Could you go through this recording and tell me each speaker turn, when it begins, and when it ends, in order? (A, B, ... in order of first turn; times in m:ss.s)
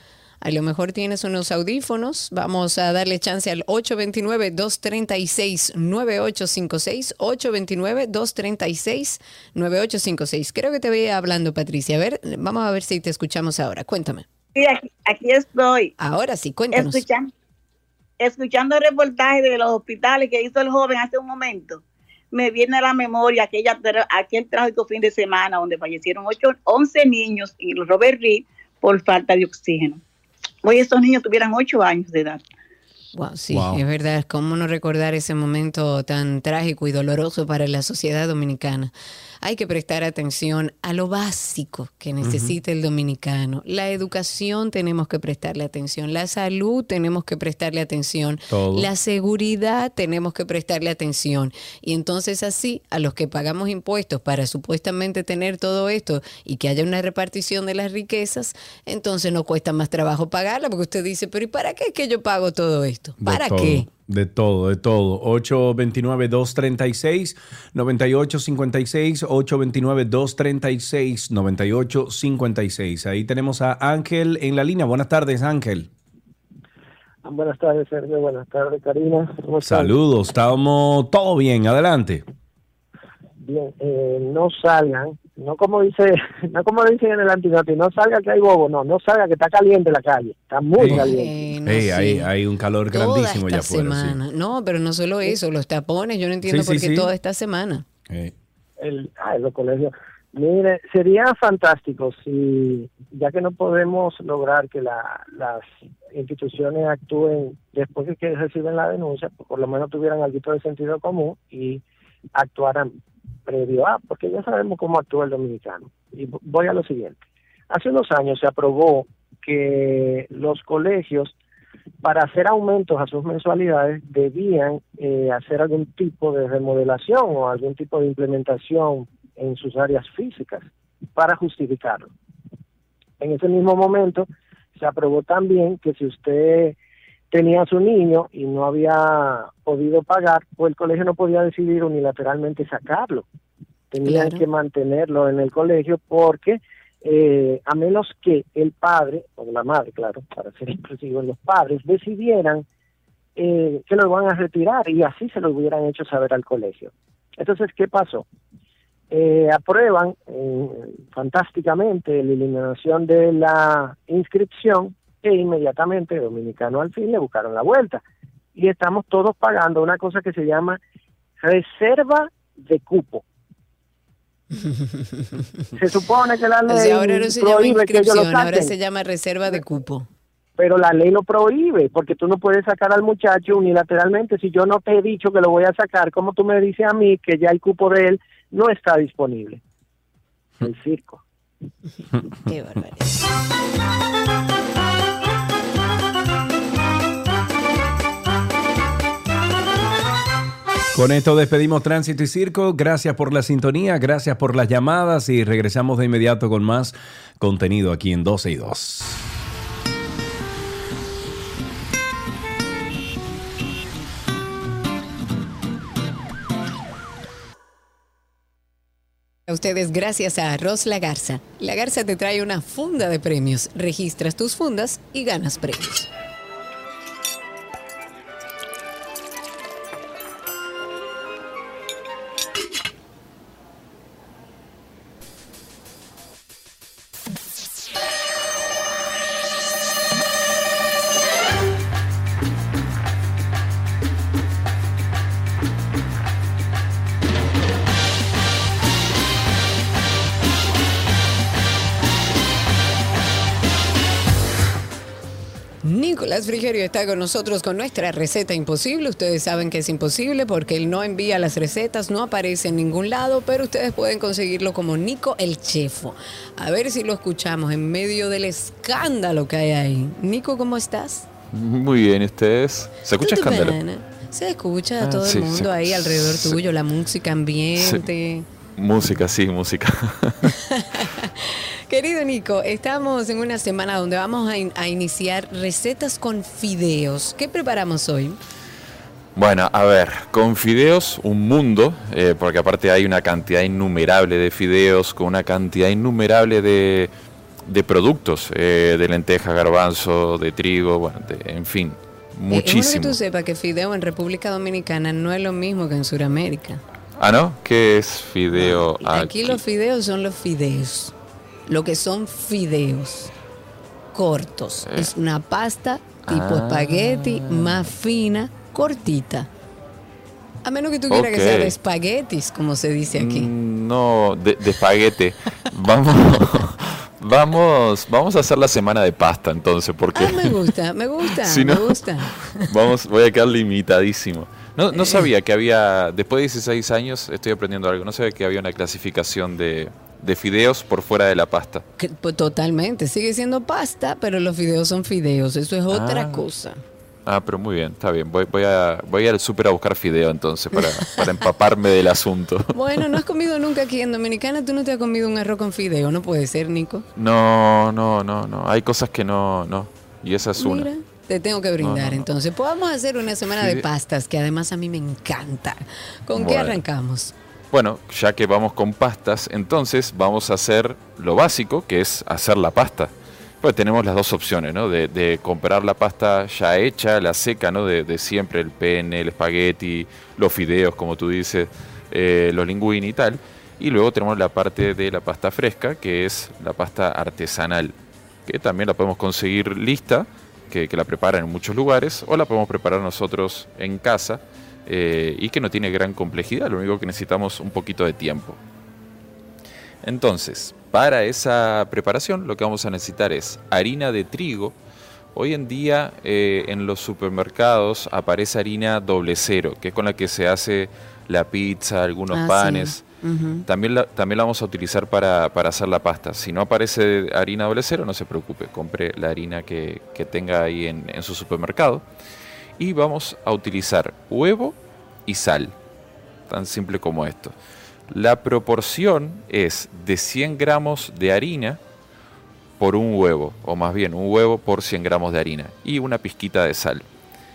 0:00.4-0:14.3 A
0:14.6-0:15.9 B
0:16.0-0:17.0 A
0:16.7-0:17.3 B
0:18.2-0:30.0 B
0:30.6-0:32.4 B
0:33.1-1:03.9 A
0:33.5-0:33.8 C
0:42.2-0:42.6 C
0:48.5-0:48.9 C
1:03.2-1:15.9 C
1:17.2-1:19.9 D
1:19.6-1:22.2 C
1:23.4-1:31.5 D
1:30.8-1:31.1 C
1:30.8-1:32.3 A
1:31.7-1:34.2 C
1:32.9-1:37.9 A
1:36.5-1:37.1 C
1:38.1-1:38.3 C
1:38.8-1:51.8 D
1:52.4-1:52.9 D
1:53.5-1:57.2 D
1:57.7-2:01.3 D
2:02.0-2:12.1 D
2:13.2-2:16.8 D
2:17.3-2:23.2 D
2:23.9-2:32.6 D
2:24.0-2:24.4 A
2:33.4-2:38.3 D
2:39.1-2:48.0 D
2:48.6-2:50.8 D
2:51.4-2:53.2 D
2:55.8-2:58.7 D
2:56.7-3:00.1 A
3:00.6-3:09.6 D
3:10.6-3:11.2 D
3:12.5-3:13.1 A
3:20.9-3:29.4 C
3:39.5-3:46.1 A
4:15.8-4:31.3 A
4:31.5-4:33.8 E
4:33.2-4:38.5 A
4:35.0-4:36.6 E
4:37.8-4:38.1 E
4:38.8-4:40.5 E
4:40.7-4:48.4 A
4:49.4-4:57.1 E
4:57.6-5:03.2 E
5:02.5-5:06.8 A
5:07.2-5:09.6 E
5:08.5-5:11.1 A
5:11.7-5:13.3 A
5:14.1-5:19.5 A
5:14.9-5:15.1 E
5:16.3-5:17.8 E
5:20.6-5:23.5 A
5:21.1-5:21.7 E
5:23.1-5:30.7 E
5:30.1-5:32.7 A
5:31.3-5:32.0 E
5:32.6-5:41.8 E
5:35.0-5:35.2 A
5:42.0-5:46.8 A
5:45.9-5:46.5 E
5:47.3-5:53.0 E
5:50.8-5:51.1 A
5:52.7-5:57.0 A
5:57.2-6:00.9 E
6:00.6-6:07.3 A
6:01.8-6:02.3 E
6:03.4-6:03.8 E
6:06.4-6:06.8 E
6:07.7-6:13.1 E
6:13.6-6:38.6 E
6:40.0-6:44.8 E
6:45.3-6:53.0 E
6:52.3-6:53.6 A
6:53.7-7:02.0 E
7:02.8-7:05.8 E
7:06.5-7:07.6 E
7:08.1-7:11.8 E
7:12.8-7:17.1 E